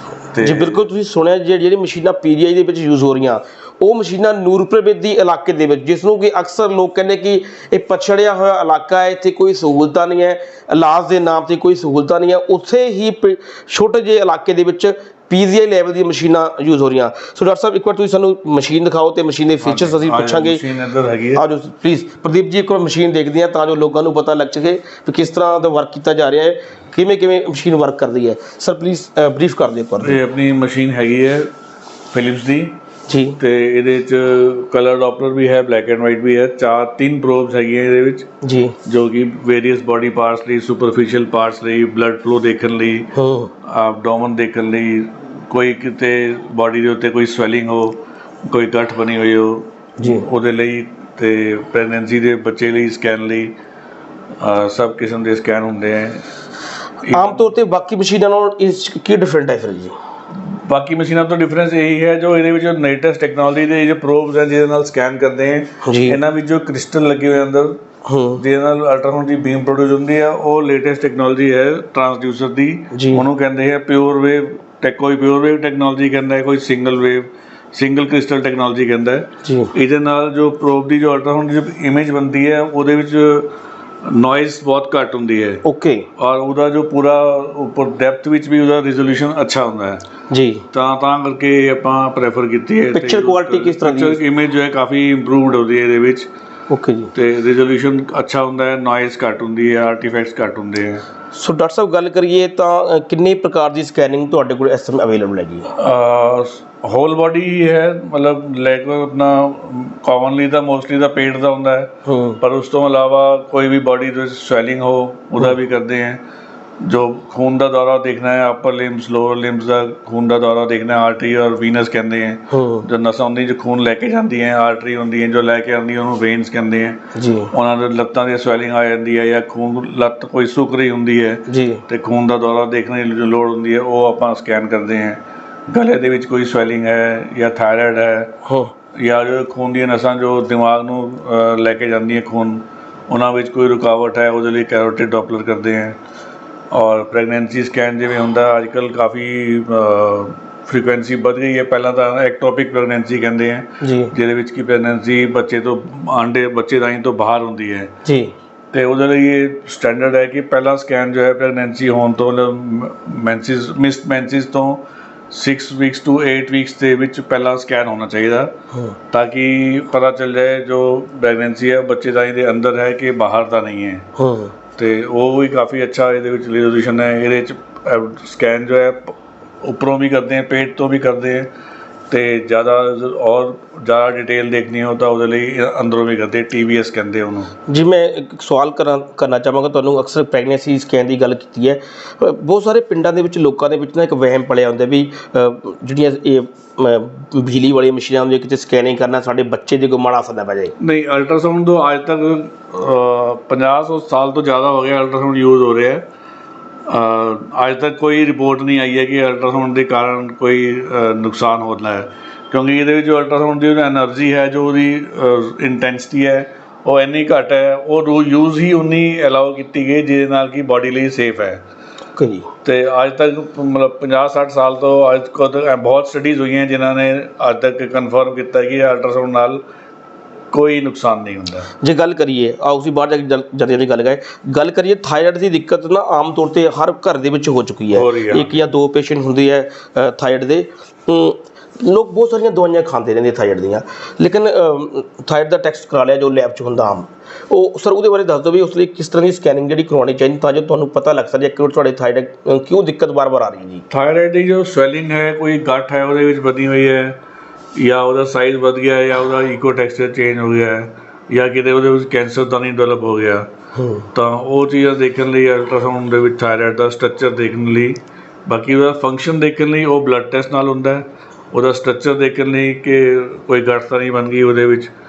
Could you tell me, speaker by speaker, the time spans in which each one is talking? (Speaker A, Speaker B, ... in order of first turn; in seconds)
Speaker A: 0.3-0.8, 19.6-21.4, 30.0-31.5, 32.1-32.8, 33.4-38.3, 38.9-43.1, 43.6-53.5, 54.4-56.2, 57.0-57.5, 60.5-67.8, 68.4-83.5, 84.0-85.6, 86.2-90.0, 90.7-96.3, 97.1-101.1, 105.7-116.2, 116.8-127.0, 127.5-138.3, 138.9-146.0, 146.7-157.9, 158.7-168.5, 169.1-174.1, 174.8-181.5, 182.1-187.5, 200.8-206.1, 206.9-221.6, 222.6-229.6, 230.5-231.7, 237.9-238.6, 253.9-257.2, 257.8-263.5, 264.1-274.9
Speaker B: 0.4-20.6, 21.3-30.2, 33.1-33.4, 38.4-38.8, 43.1-43.5, 50.0-50.3, 57.1-59.9, 65.8-66.2, 68.0-68.4, 72.9-73.2, 79.4-79.7, 85.6-86.1, 90.3-90.6, 92.9-94.2, 96.7-97.1, 101.3-105.7, 112.0-112.4, 122.5-122.9, 127.1-127.5, 131.5-131.8, 138.4-138.7, 153.8-154.1, 158.1-158.3, 174.2-174.5, 187.7-200.8, 222.2-222.5, 231.8-253.8, 263.8-264.1